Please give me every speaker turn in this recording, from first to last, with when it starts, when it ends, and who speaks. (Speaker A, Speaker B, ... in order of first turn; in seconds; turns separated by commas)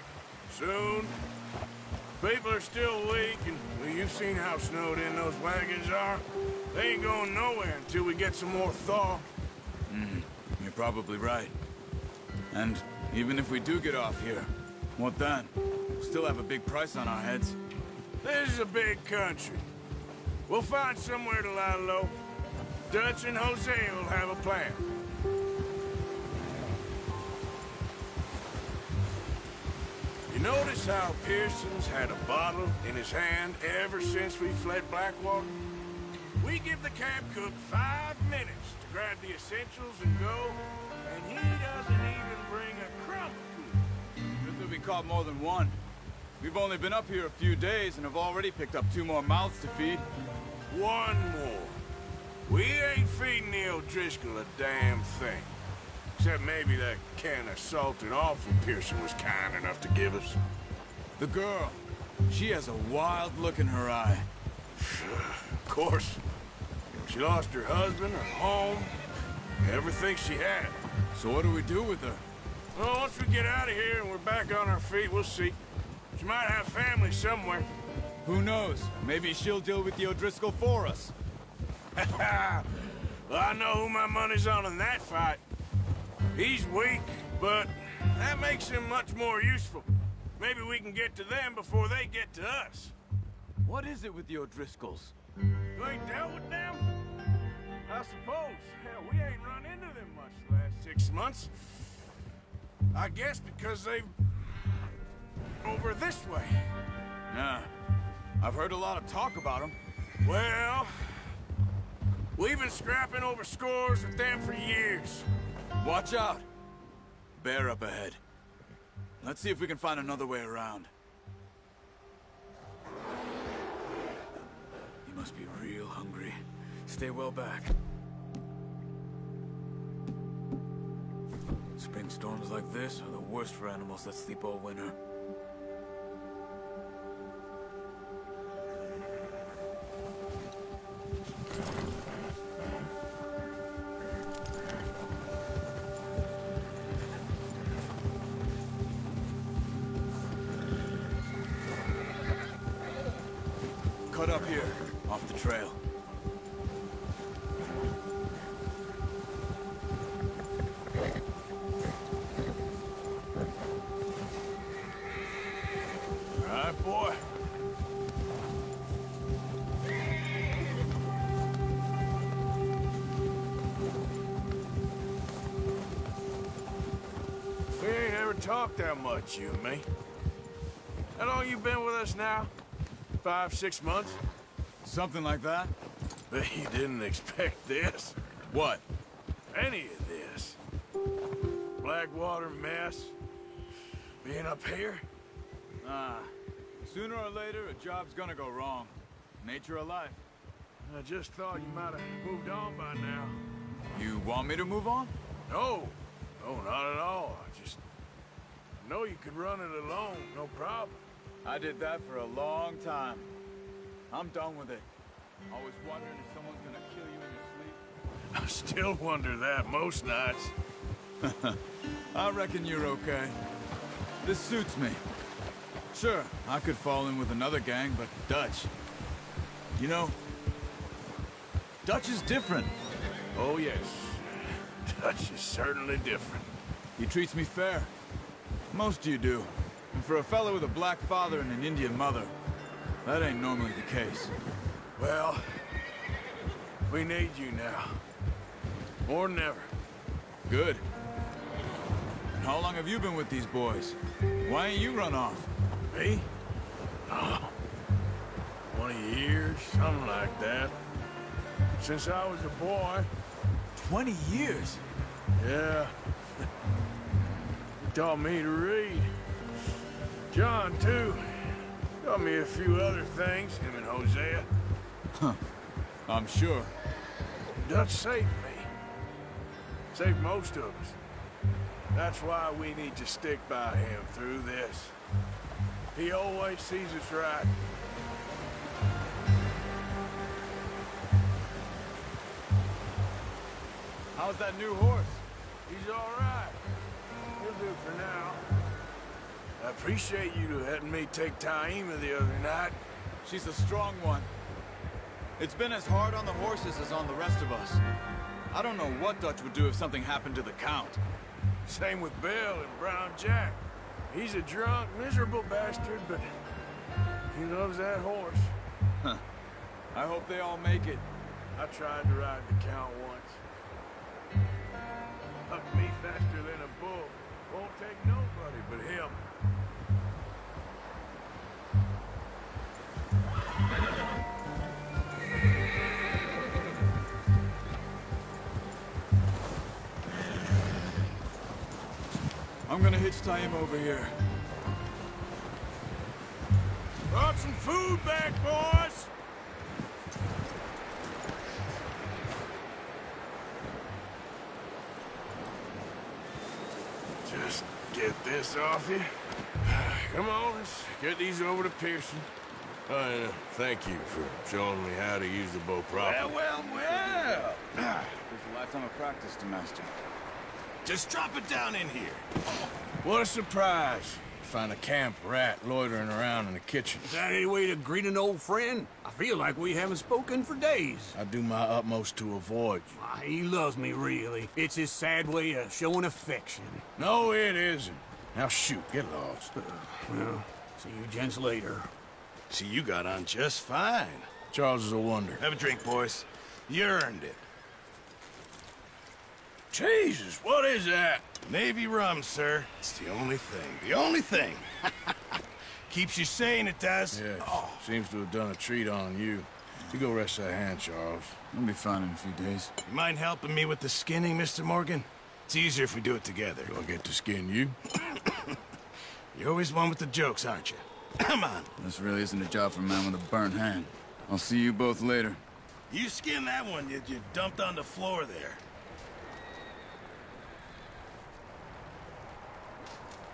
Speaker A: 0.5-1.2, Speaker A: 2.2-9.3, Speaker B: 9.9-11.5, Speaker B: 12.5-17.6, Speaker A: 18.2-19.6, Speaker A: 20.5-22.1, Speaker A: 22.9-24.9, Speaker A: 30.3-35.5, Speaker A: 36.4-43.8, Speaker B: 44.4-45.8, Speaker B: 46.4-50.0, Speaker A: 50.7-51.8, Speaker A: 52.5-55.5, Speaker A: 56.2-60.4, Speaker B: 61.2-64.3, Speaker A: 64.8-66.2, Speaker A: 67.0-68.9, Speaker A: 69.6-70.8, Speaker B: 71.1-72.2, Speaker A: 72.7-75.6, Speaker A: 76.1-77.7, Speaker B: 78.2-81.1, Speaker A: 82.0-85.4, Speaker A: 86.3-89.9, Speaker A: 90.4-92.9, Speaker B: 93.6-95.1, Speaker A: 95.7-96.9, Speaker A: 97.9-101.9, Speaker A: 102.9-104.1, Speaker A: 105.6-106.6, Speaker B: 107.3-107.7, Speaker B: 108.4-109.8, Speaker A: 110.2-111.0, Speaker A: 112.3-115.3, Speaker B: 115.8-116.5, Speaker B: 117.4-118.2, Speaker B: 119.2-120.9, Speaker B: 125.0-127.7, Speaker B: 131.8-134.9, Speaker B: 154.1-155.8, Speaker A: 166.4-167.2, Speaker A: 177.8-179.9, Speaker A: 181.2-182.5, Speaker A: 183.2-184.2, Speaker B: 184.8-185.7, Speaker A: 186.3-188.2, Speaker B: 188.5-188.8, Speaker A: 189.5-190.6, Speaker A: 191.8-193.1, Speaker A: 194.2-195.0, Speaker B: 195.8-196.3, Speaker B: 196.8-200.2, Speaker A: 200.8-203.4, Speaker B: 203.9-205.1, Speaker A: 205.5-207.8, Speaker A: 208.8-211.0, Speaker B: 211.4-213.3, Speaker B: 214.1-214.9, Speaker B: 215.5-217.8, Speaker A: 218.3-220.5, Speaker B: 221.2-221.6, Speaker B: 222.1-223.3, Speaker B: 224.2-225.0, Speaker B: 225.9-228.7, Speaker B: 229.8-230.1, Speaker B: 231.8-232.7, Speaker A: 233.3-236.5, Speaker B: 237.0-237.9, Speaker B: 238.7-242.3, Speaker B: 243.0-244.3, Speaker A: 245.0-245.6, Speaker A: 246.9-248.0, Speaker A: 249.0-249.7, Speaker B: 250.5-250.8, Speaker B: 252.4-255.5, Speaker A: 255.9-256.3, Speaker A: 257.1-257.5, Speaker A: 258.7-260.8, Speaker A: 261.8-263.1, Speaker B: 263.8-264.8, Speaker A: 265.4-265.9, Speaker A: 267.9-269.1, Speaker A: 270.3-274.5, Speaker B: 276.1-276.7, Speaker A: 277.6-278.7, Speaker A: 279.9-280.9, Speaker A: 281.9-284.9, Speaker A: 285.9-287.5, Speaker B: 294.1-295.2, Speaker A: 295.7-296.6, Speaker A: 297.4-298.4, Speaker A: 299.6-302.8, Speaker B: 303.2-304.3, Speaker B: 305.4-307.8, Speaker B: 308.5-311.0, Speaker A: 311.7-316.3, Speaker A: 317.3-318.5, Speaker B: 319.9-321.0, Speaker A: 321.6-323.4, Speaker A: 325.5-329.2, Speaker B: 342.6-344.1, Speaker A: 347.1-349.1, Speaker A: 357.2-362.3, Speaker A: 362.9-366.4, Speaker C: 365.9-367.6, Speaker B: 366.4-367.5, Speaker A: 366.9-367.6, Speaker B: 368.2-369.9, Speaker C: 370.8-372.2, Speaker A: 373.0-377.1, Speaker D: 377.1-381.1, Speaker A: 381.1-382.9, Speaker D: 383.1-383.8, Speaker D: 384.4-386.7, Speaker A: 387.0-389.5, Speaker D: 390.8-391.9, Speaker C: 392.5-394.3, Speaker A: 394.5-395.4, Speaker C: 395.4-397.4, Speaker A: 399.7-401.3, Speaker C: 401.4-404.9, Speaker C: 405.9-407.7, Speaker A: 407.1-411.4, Speaker B: 411.5-412.7, Speaker C: 412.8-416.7, Speaker A: 416.6-417.8, Speaker C: 419.3-421.7, Speaker B: 421.8-425.4, Speaker C: 425.9-428.6